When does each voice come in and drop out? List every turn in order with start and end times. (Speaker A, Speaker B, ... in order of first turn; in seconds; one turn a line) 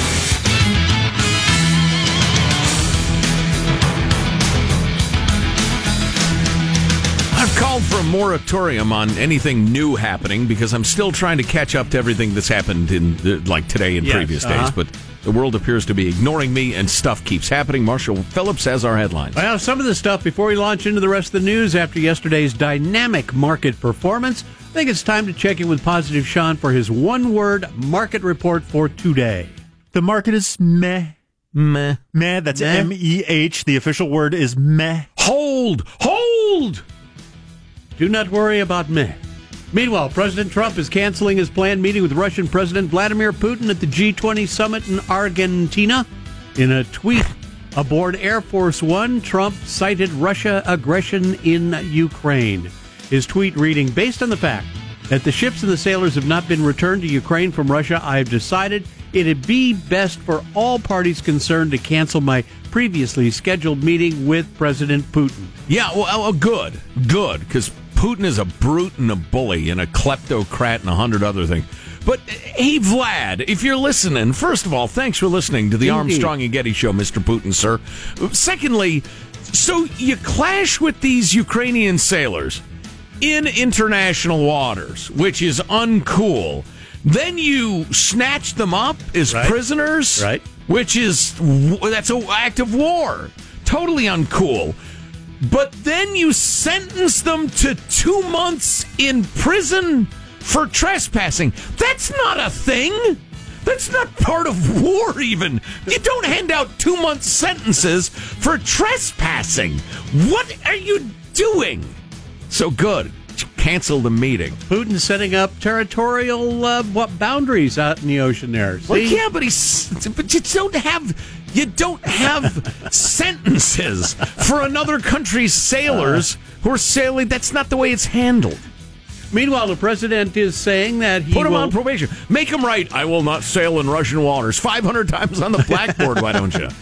Speaker A: 7.3-19.4
Speaker B: 14.0-14.8
Speaker B: 19.4-29.6
Speaker C: 29.9-31.2
Speaker A: 31.6-32.0
Speaker C: 32.1-35.1
Speaker B: 32.5-32.9
Speaker A: 35.2-36.8
Speaker B: 38.0-39.2
Speaker B: 39.7-65.5
Speaker A: 65.7-82.6
Speaker B: 75.8-76.3
Speaker A: 83.2-94.8
Speaker B: 89.3-89.5
Speaker B: 90.2-90.4
Speaker A: 95.4-111.9
Speaker A: 112.5-114.6
Speaker B: 114.7-119.2
Speaker A: 118.9-128.6
Speaker B: 126.0-126.2
Speaker B: 129.3-131.8
Speaker A: 131.3-136.7